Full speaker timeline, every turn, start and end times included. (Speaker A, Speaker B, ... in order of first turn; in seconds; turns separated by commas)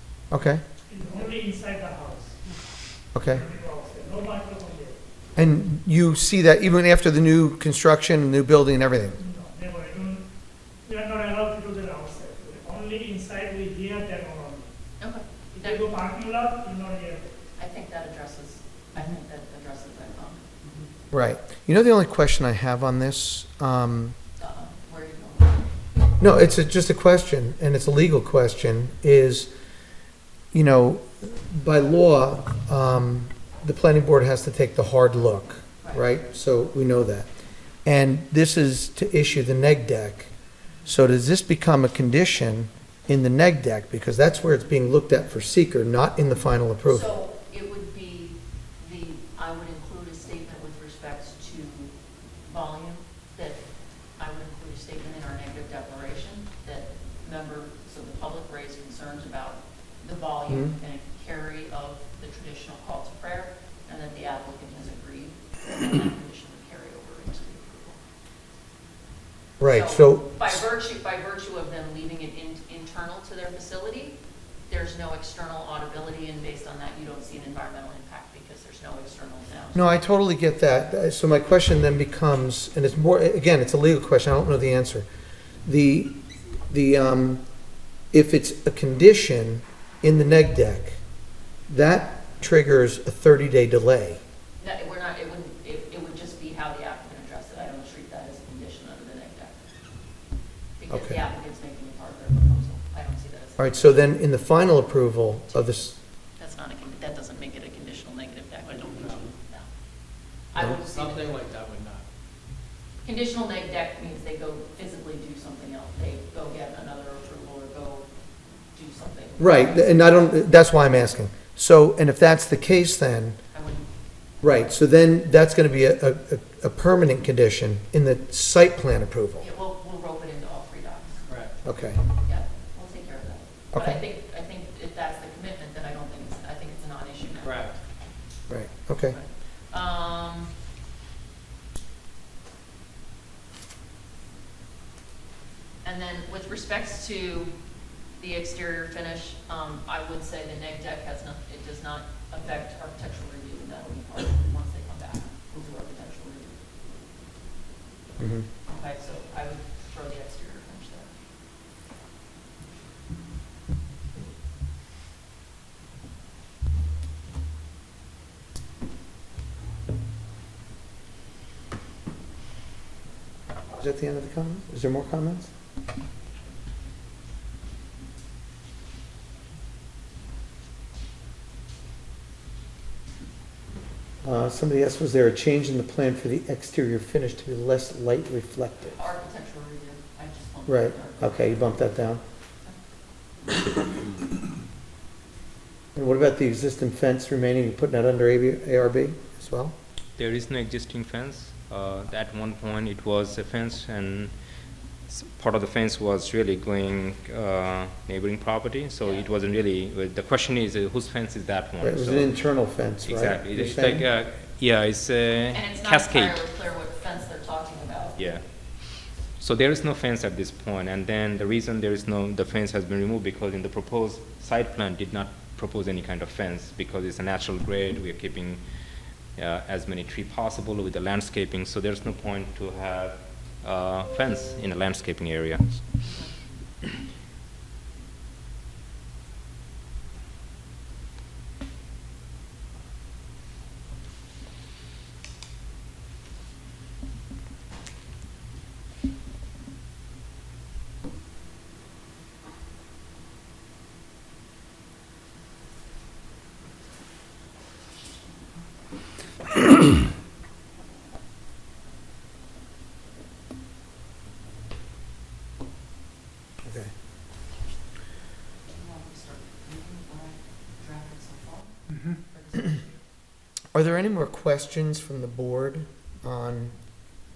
Speaker A: 0.3-0.6, Speaker B: 0.9-2.6, Speaker A: 3.1-3.4, Speaker B: 3.2-5.0, Speaker A: 5.3-9.2, Speaker B: 9.2-10.2, Speaker B: 10.8-14.7, Speaker C: 15.0-15.9, Speaker B: 15.5-17.3, Speaker C: 17.6-20.5, Speaker A: 21.1-24.1, Speaker C: 24.4-25.7, Speaker A: 26.2-29.5, Speaker A: 30.5-37.3, Speaker C: 35.8-36.1, Speaker A: 37.8-40.3, Speaker A: 40.9-47.0, Speaker C: 46.9-51.9, Speaker C: 52.4-53.6, Speaker C: 54.2-68.0, Speaker A: 69.6-70.6, Speaker C: 69.6-74.2, Speaker C: 74.7-80.0, Speaker A: 79.7-85.1, Speaker A: 85.6-87.4, Speaker A: 88.1-91.0, Speaker A: 91.7-94.2, Speaker C: 94.6-99.7, Speaker C: 100.8-104.1, Speaker A: 100.9-101.2, Speaker A: 103.6-106.0, Speaker C: 106.4-109.7, Speaker D: 108.8-109.3, Speaker C: 110.5-111.4, Speaker D: 110.8-112.0, Speaker C: 113.0-118.1, Speaker C: 118.7-120.4, Speaker A: 119.4-123.4, Speaker C: 123.5-123.9, Speaker A: 124.4-129.4, Speaker C: 129.4-131.3, Speaker D: 131.3-131.6, Speaker A: 131.6-132.0, Speaker C: 132.2-137.7, Speaker A: 133.7-134.0, Speaker D: 137.4-137.8, Speaker A: 138.5-139.2, Speaker C: 139.1-140.5, Speaker C: 145.8-147.5, Speaker C: 148.2-156.6, Speaker A: 158.2-158.5, Speaker C: 158.7-161.1, Speaker A: 173.7-175.5, Speaker A: 184.2-189.0, Speaker C: 188.8-192.0, Speaker A: 190.7-192.2, Speaker A: 195.9-199.7, Speaker E: 200.2-204.3, Speaker E: 205.1-212.4, Speaker C: 209.0-209.3, Speaker A: 211.8-214.1, Speaker E: 213.0-216.4, Speaker C: 215.5-218.3, Speaker E: 218.2-218.4, Speaker E: 219.4-228.6, Speaker E: 229.3-235.9, Speaker C: 236.0-236.3, Speaker A: 266.6-266.9, Speaker C: 268.7-272.9, Speaker A: 273.7-276.8